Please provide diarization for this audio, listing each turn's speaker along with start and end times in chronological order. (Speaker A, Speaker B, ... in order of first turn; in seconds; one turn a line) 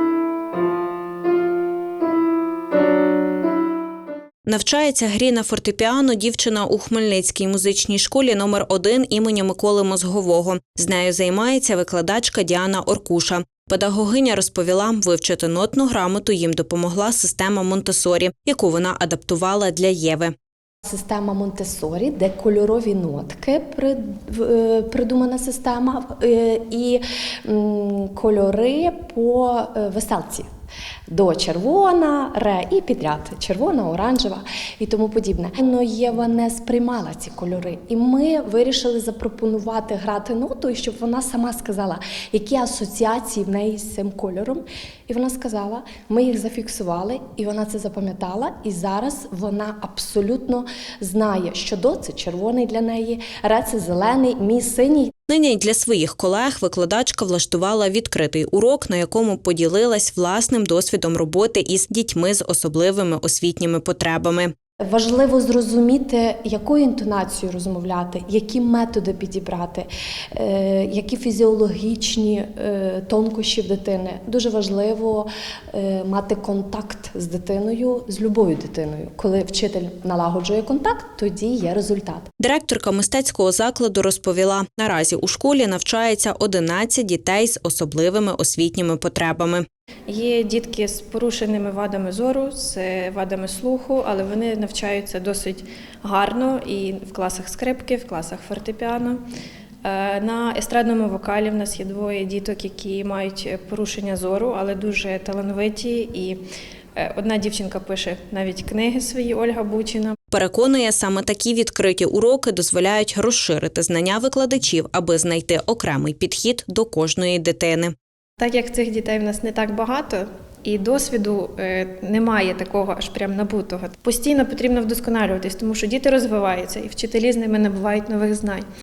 Speaker A: 4.5-20.3
Speaker B: 20.8-30.5
Speaker B: 31.1-55.1
Speaker A: 55.3-64.5
Speaker B: 64.9-82.3
Speaker A: 82.4-89.6
Speaker C: 90.1-99.2
Speaker C: 99.8-106.4
Speaker C: 107.0-110.2
Speaker A: 110.3-117.9
Speaker C: 118.4-128.6